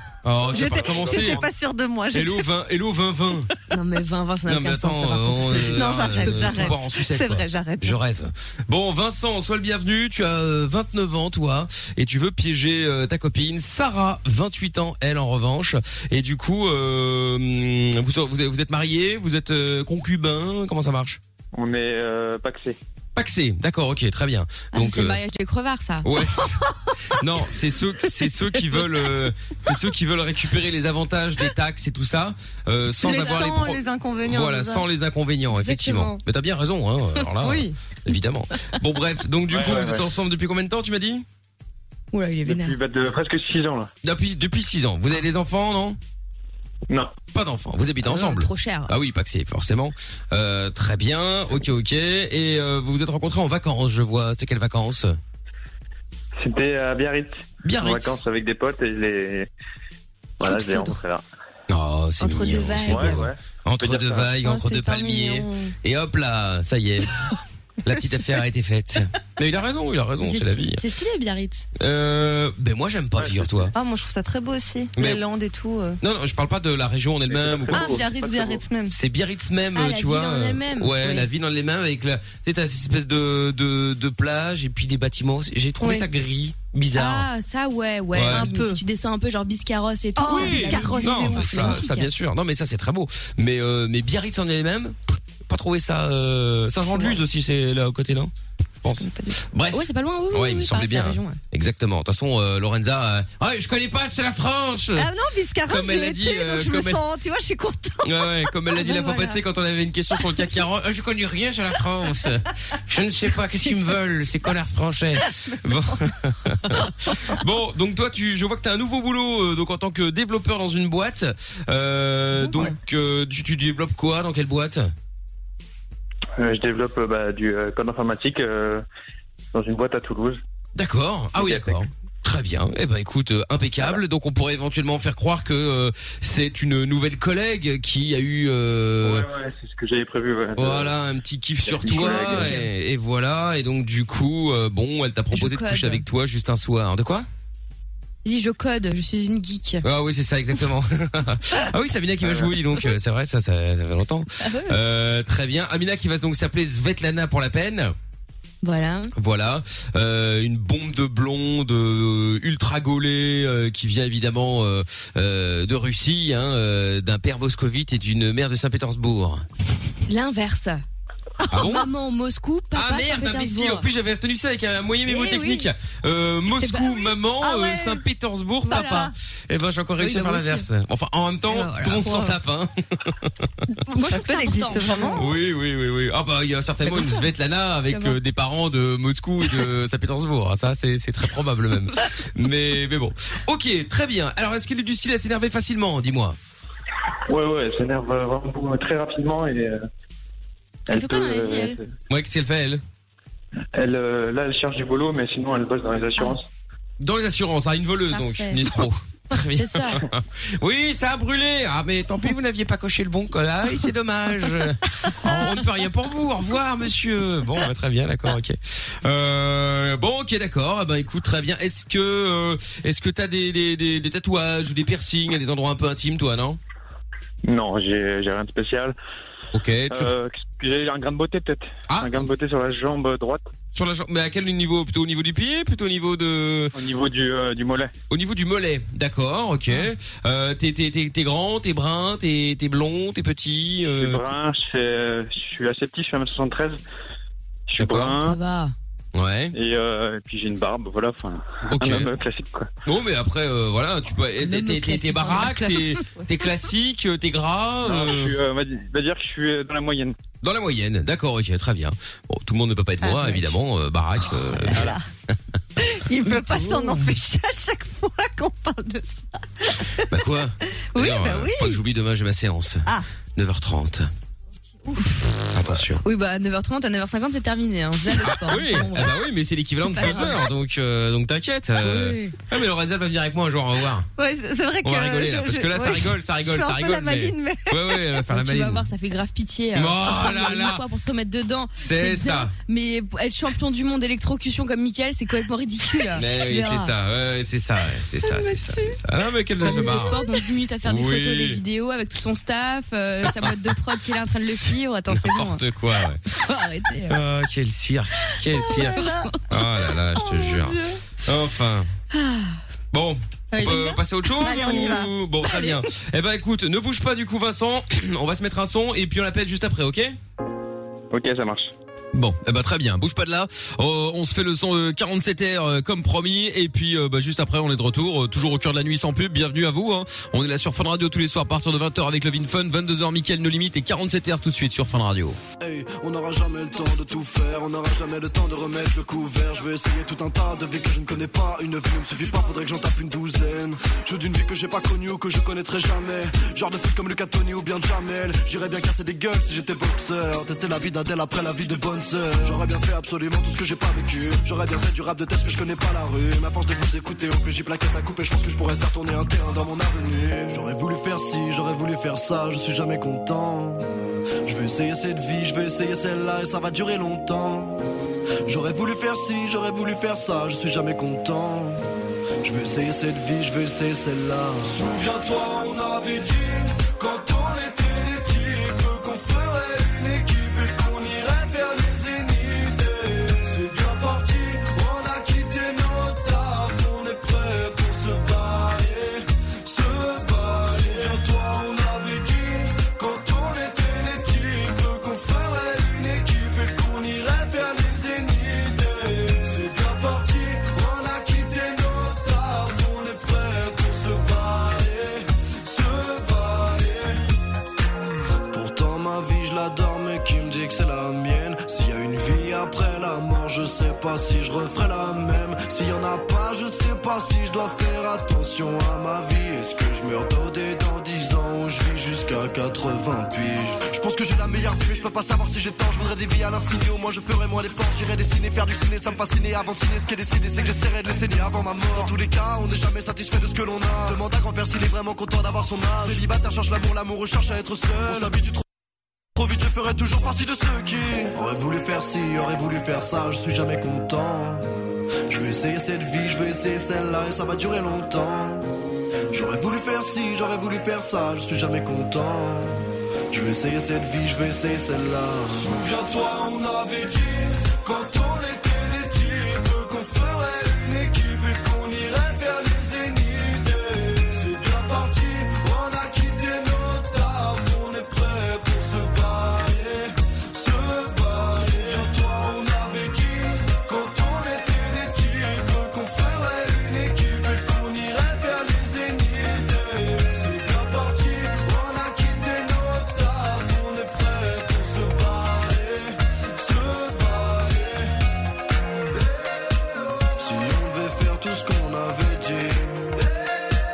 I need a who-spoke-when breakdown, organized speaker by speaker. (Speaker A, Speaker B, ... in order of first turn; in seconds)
Speaker A: 0.2-1.4, 2.1-3.5, 4.5-21.2, 23.1-25.2, 26.0-26.6, 27.1-41.2, 44.0-46.0, 47.3-55.2, 57.6-58.2, 61.7-67.1, 67.8-70.8, 71.8-73.7, 75.0-75.2, 76.0-78.0, 78.9-87.3, 88.1-88.5, 90.3-98.3, 98.8-105.1, 105.7-107.0, 108.0-124.9, 130.7-139.3, 140.6-147.3, 149.8-157.9, 159.1-169.4, 171.5-171.9, 172.7-183.5, 185.1-196.4, 202.1-202.8, 207.0-226.6, 229.5-230.1, 231.9-232.2, 233.7-236.7, 238.1-244.2, 247.8-248.1, 249.1-249.5, 251.7-252.1, 252.8-258.4, 260.4-265.3, 270.1-274.1, 275.5-276.0, 278.1-284.1, 284.8-288.9, 289.7-290.8, 291.8-292.5, 296.1-300.2, 300.8-301.6, 303.2-303.7, 304.4-306.2, 307.1-311.9, 312.9-320.2, 322.1-335.4
Speaker B: 0.5-2.5, 5.6-8.0, 33.0-34.9, 37.4-37.8, 64.4-65.5, 73.7-76.0, 77.7-78.9, 85.8-86.1, 88.2-88.8, 90.2-91.8, 96.9-97.2, 99.0-99.4, 105.0-109.2, 115.5-116.0, 171.4-171.8, 177.4-178.0, 178.7-179.1, 183.9-185.3, 263.0-263.5, 264.4-265.0, 265.8-270.1, 270.9-271.8, 274.9-275.2, 284.2-288.0, 308.8-309.3, 310.2-311.0, 313.5-315.1
Speaker C: 0.5-1.4, 21.5-22.8, 39.5-40.0, 42.5-43.9, 46.9-47.1, 56.4-59.5, 60.4-61.2, 62.9-64.3, 73.2-73.5, 77.3-78.6, 126.4-128.8, 129.5-130.4, 131.3-131.8, 139.0-140.9, 141.6-142.6, 197.3-199.8, 200.9-201.9, 203.7-206.5, 227.4-228.9, 229.9-233.5, 236.7-237.9, 243.9-246.8, 247.7-248.4, 249.5-252.7, 257.8-260.1, 321.1-321.7
Speaker D: 3.7-6.7, 24.7-26.1, 35.5-36.2, 42.1-42.8, 48.0-48.9, 62.2-63.2, 70.2-71.7, 79.7-81.2, 86.9-92.1, 99.7-101.4, 108.8-109.3, 141.8-142.7, 145.3-146.1, 148.2-149.8, 154.4-154.8, 158.6-159.1, 170.1-170.8, 171.5-173.8, 175.1-175.7, 176.6-177.2, 178.7-179.1, 180.0-180.7, 181.5-182.3, 183.9-185.3, 186.8-187.2, 187.9-188.2, 200.9-201.8, 208.1-208.6, 209.3-210.0, 248.1-248.7, 254.4-256.0, 266.2-267.1, 276.0-279.1, 279.8-280.4, 281.8-282.4, 288.3-296.9, 298.3-299.0, 299.6-305.6, 306.3-307.2, 312.1-312.6, 315.4-315.7
Speaker E: 335.6-363.9, 364.4-367.9, 368.4-371.9, 372.4-407.2, 408.5-438.6, 439.4-444.7, 445.3-448.8, 449.3-488.2, 489.1-489.6, 490.4-493.5